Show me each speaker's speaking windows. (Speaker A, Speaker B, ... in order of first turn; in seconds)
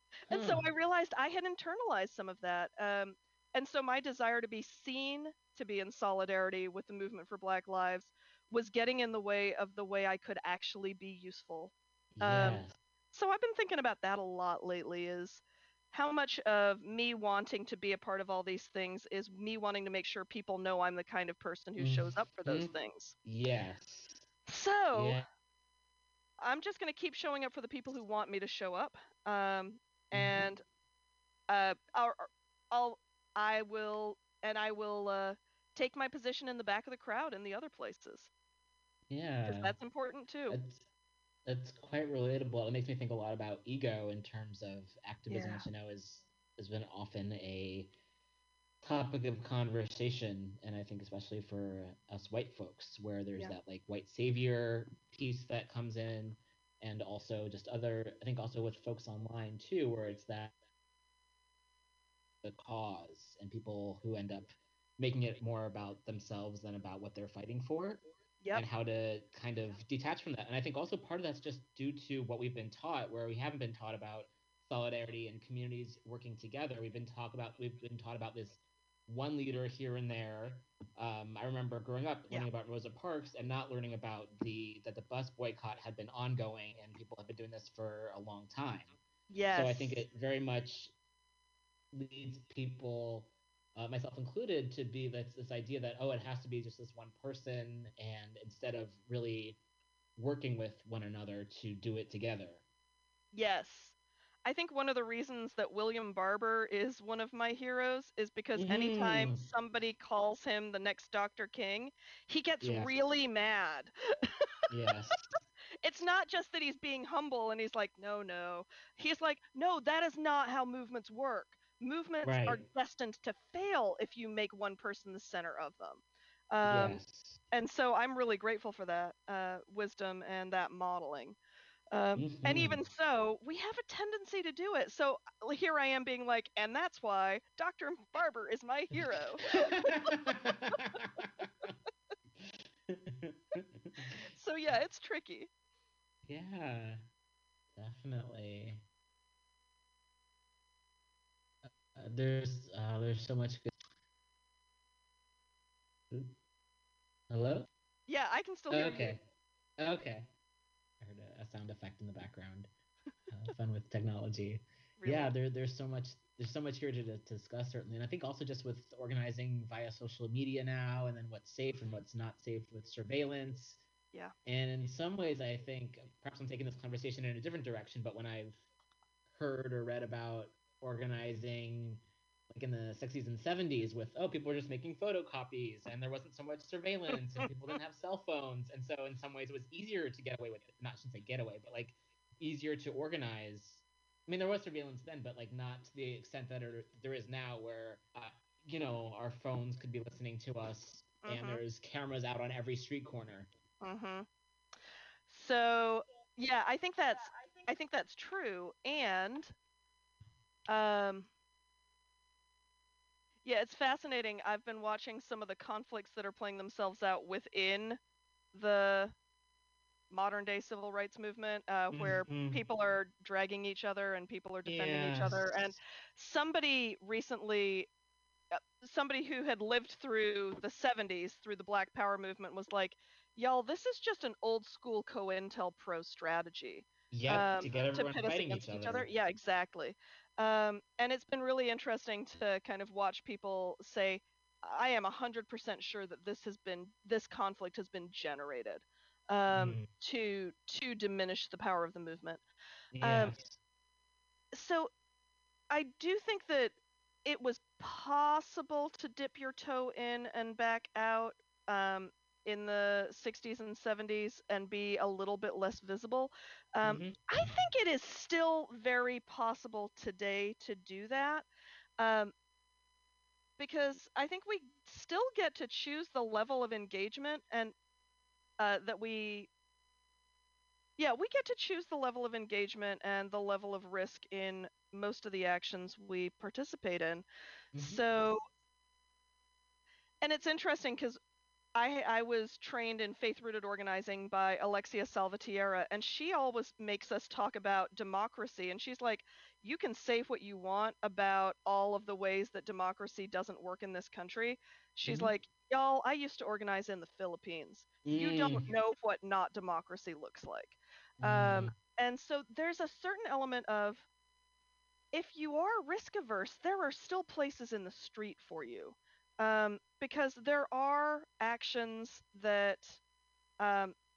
Speaker A: 0.3-0.7, 12.2-12.7, 21.8-22.7, 23.2-24.2, 24.9-25.2, 30.1-30.4, 39.1-39.7, 40.5-40.8, 41.5-47.9, 48.8-60.5, 62.4-89.0, 89.5-90.9, 91.9-99.6, 100.2-102.6, 108.5-109.4, 112.6-112.9, 114.7-115.1, 122.2-122.6, 126.6-127.4, 132.2-132.8, 139.6-141.7, 142.4-143.9, 146.3-147.0, 147.8-148.9, 151.6-153.8, 157.3-157.7, 158.7-159.2, 159.8-160.3, 161.0-162.7, 163.3-173.8, 174.4-178.6, 179.3-203.5, 221.9-222.6, 224.7-225.8, 237.1-239.1, 249.5-249.9, 252.9-253.6, 266.8-267.6, 287.7-288.0, 305.1-305.3, 308.0-308.7, 311.2-311.7
Speaker B: 0.3-23.1, 24.5-25.2, 26.4-30.6, 31.5-38.3, 39.5-40.6, 45.3-45.7, 89.3-90.0, 103.3-114.5, 115.8-127.0, 127.5-131.4, 131.9-140.1, 144.3-145.5, 158.1-159.2, 165.0-165.3, 201.2-201.6, 203.8-204.3, 205.3-209.5, 210.7-211.3, 213.4-218.0, 218.5-219.1, 220.1-227.9, 228.5-252.4, 253.0-253.3, 254.5-254.9, 255.7-271.5, 272.0-272.3, 273.6-277.7, 278.6-279.5, 281.0-287.3, 287.8-288.4, 290.2-291.2, 291.8-314.1, 315.1-323.0, 323.6-323.9